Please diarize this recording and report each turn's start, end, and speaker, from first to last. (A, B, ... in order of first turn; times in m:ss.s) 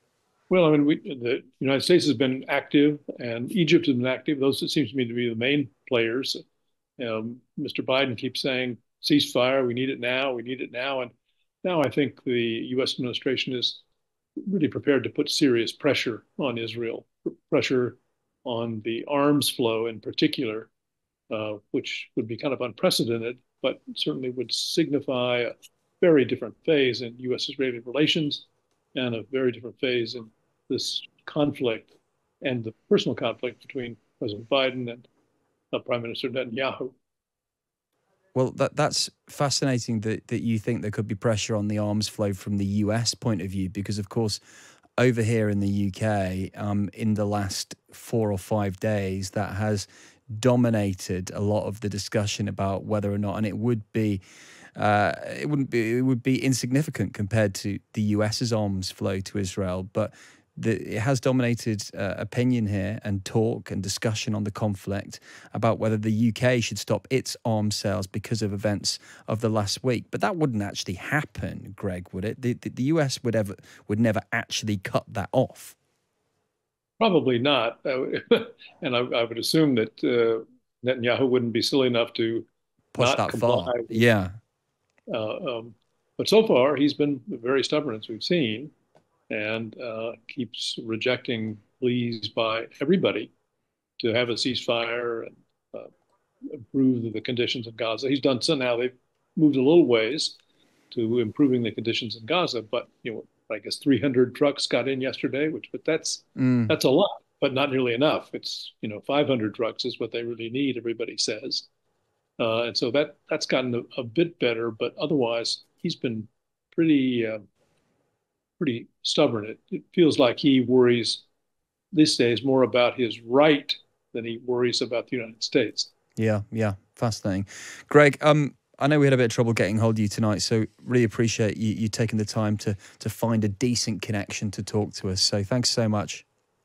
0:00.5-0:06.4 A
0:07.0-0:11.1 A
0:11.6-0:13.8 A
0:14.4-0:20.7 A
0:21.3-0:35.1 A
0:35.7-0:36.9 A
0:38.3-0:44.4 B
0:45.0-0:54.2 B
0:54.8-1:15.7 B
1:17.0-1:22.5 A
1:22.9-1:24.3 B
1:23.0-1:24.0 A
1:25.1-1:28.7 A
1:29.3-1:33.3 A
1:34.0-1:35.9 A
1:36.5-1:40.4 A
1:40.9-1:51.7 A
1:46.4-1:46.7 B
1:52.4-1:57.4 A
1:58.6-2:01.2 A
2:01.9-2:05.9 A
2:06.2-2:16.2 B